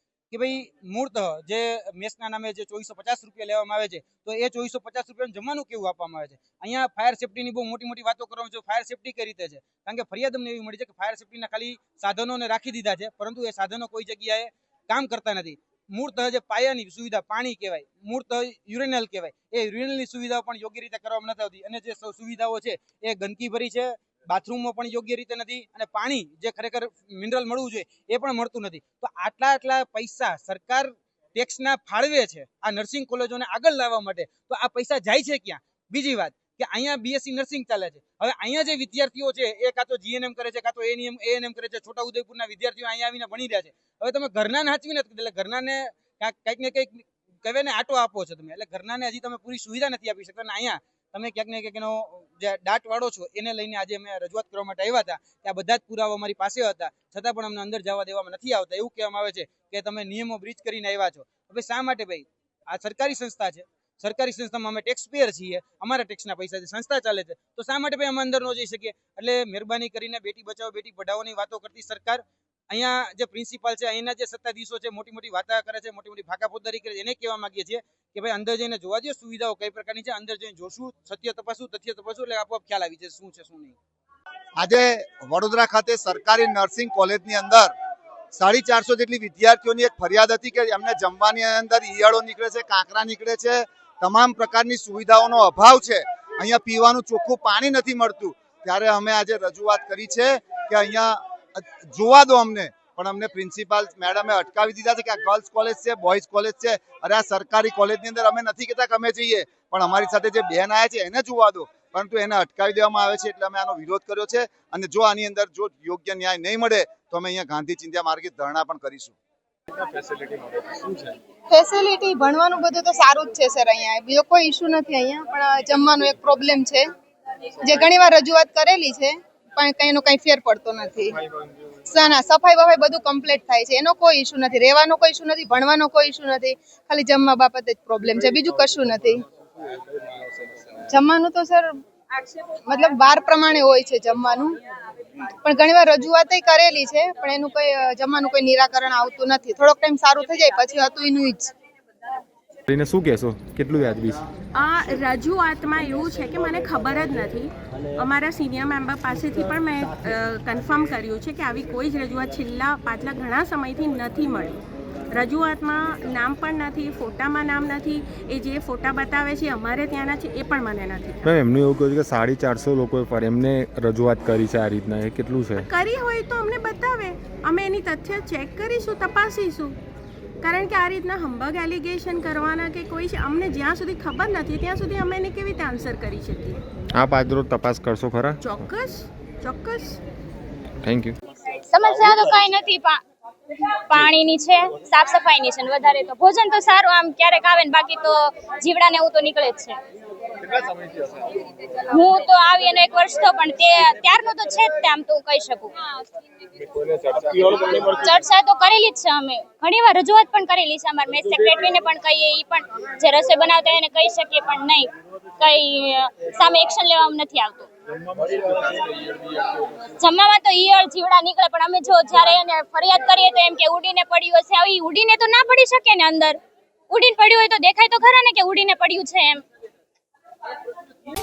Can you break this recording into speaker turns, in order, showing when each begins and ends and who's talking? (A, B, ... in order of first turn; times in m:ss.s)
0:00.3-1:23.8 A
1:24.6-1:27.7 B
1:28.3-1:59.1 B
2:01.5-2:06.9 C
2:07.6-2:11.1 C
2:11.8-2:19.2 C
2:20.9-2:21.8 C
2:22.6-2:24.6 C
2:25.4-2:31.5 C
2:32.7-2:34.2 D
2:34.5-2:44.6 E
2:45.1-2:51.2 E
2:51.2-2:55.7 D
2:55.5-2:59.8 E
3:00.4-3:06.6 E
3:07.0-3:08.6 D
3:08.4-3:10.0 E
3:10.8-3:11.1 D
3:11.7-3:13.0 F
3:13.9-3:19.8 F
3:21.9-3:25.7 F
3:27.4-3:37.7 F
3:40.0-3:46.4 F
3:46.9-3:49.4 F